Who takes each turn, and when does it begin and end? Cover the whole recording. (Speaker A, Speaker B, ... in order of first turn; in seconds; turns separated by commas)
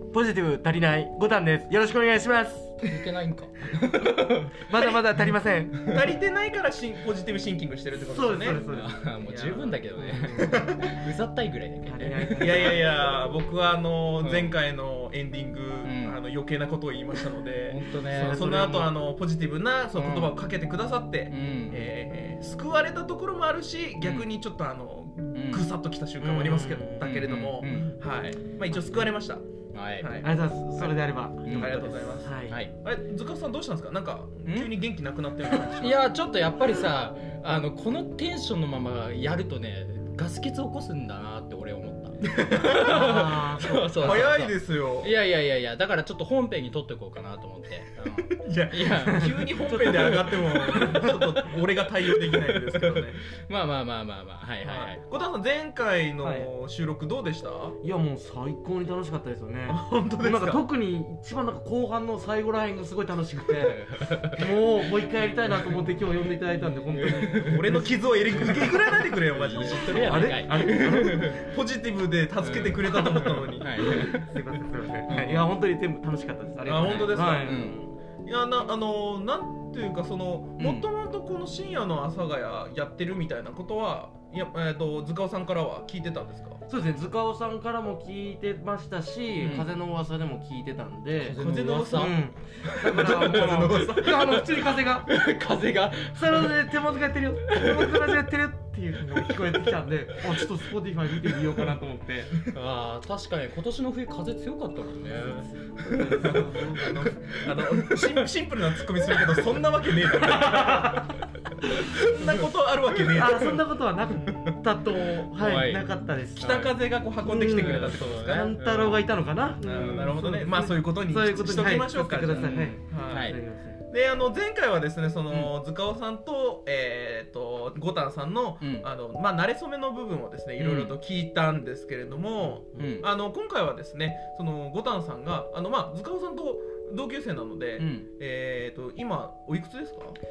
Speaker A: 0.1-2.8, Speaker B: 2.8-4.6, Speaker A: 4.0-5.8, Speaker C: 5.8-8.6, Speaker A: 8.0-9.1, Speaker B: 8.6-12.8, Speaker C: 9.2-9.8, Speaker A: 9.9-10.7, Speaker C: 10.3-10.9, Speaker A: 11.8-13.0, Speaker C: 12.4-29.4, Speaker B: 14.2-14.5, Speaker B: 15.8-16.2, Speaker B: 17.7-18.5, Speaker A: 18.1-18.9, Speaker B: 19.9-20.4, Speaker B: 21.3-21.9, Speaker B: 24.0-24.3, Speaker B: 25.3-25.7, Speaker A: 26.2-27.2, Speaker B: 27.0-27.9, Speaker A: 28.7-29.0, Speaker B: 29.7-30.1, Speaker C: 30.0-36.1, Speaker A: 30.2-32.6, Speaker B: 31.4-31.7, Speaker B: 34.5-34.7, Speaker B: 35.7-51.0, Speaker C: 42.2-43.2, Speaker A: 42.6-44.4, Speaker C: 44.0-45.1, Speaker C: 48.3-53.2, Speaker A: 49.0-51.4, Speaker B: 52.2-55.0, Speaker C: 54.6-57.8, Speaker A: 56.2-56.5, Speaker A: 57.8-68.7, Speaker C: 59.7-60.6, Speaker B: 63.5-64.6, Speaker B: 66.9-71.5, Speaker C: 67.3-74.1, Speaker A: 69.9-71.4, Speaker B: 72.4-74.4, Speaker A: 73.8-78.0, Speaker B: 75.1-75.5, Speaker C: 76.6-77.7, Speaker B: 76.8-77.8, Speaker C: 78.2-86.6, Speaker B: 80.6-80.9, Speaker A: 86.7-95.1, Speaker B: 89.4-89.7, Speaker B: 91.1-92.2, Speaker C: 91.4-94.4, Speaker B: 92.8-96.7, Speaker A: 96.1-102.4, Speaker B: 97.5-98.1, Speaker B: 99.1-99.6, Speaker B: 102.5-108.2, Speaker A: 105.8-106.9, Speaker C: 106.2-111.1, Speaker B: 109.1-109.5, Speaker A: 110.3-111.1, Speaker C: 111.6-113.6, Speaker A: 113.1-116.7, Speaker B: 115.3-115.9, Speaker C: 116.4-118.4, Speaker B: 116.4-116.8, Speaker A: 117.2-123.8, Speaker B: 117.4-119.0, Speaker C: 119.6-123.4, Speaker B: 119.7-120.2, Speaker B: 122.3-123.4, Speaker C: 123.9-140.2, Speaker B: 128.6-128.9, Speaker B: 130.6-131.0, Speaker B: 132.8-133.1, Speaker B: 137.8-138.1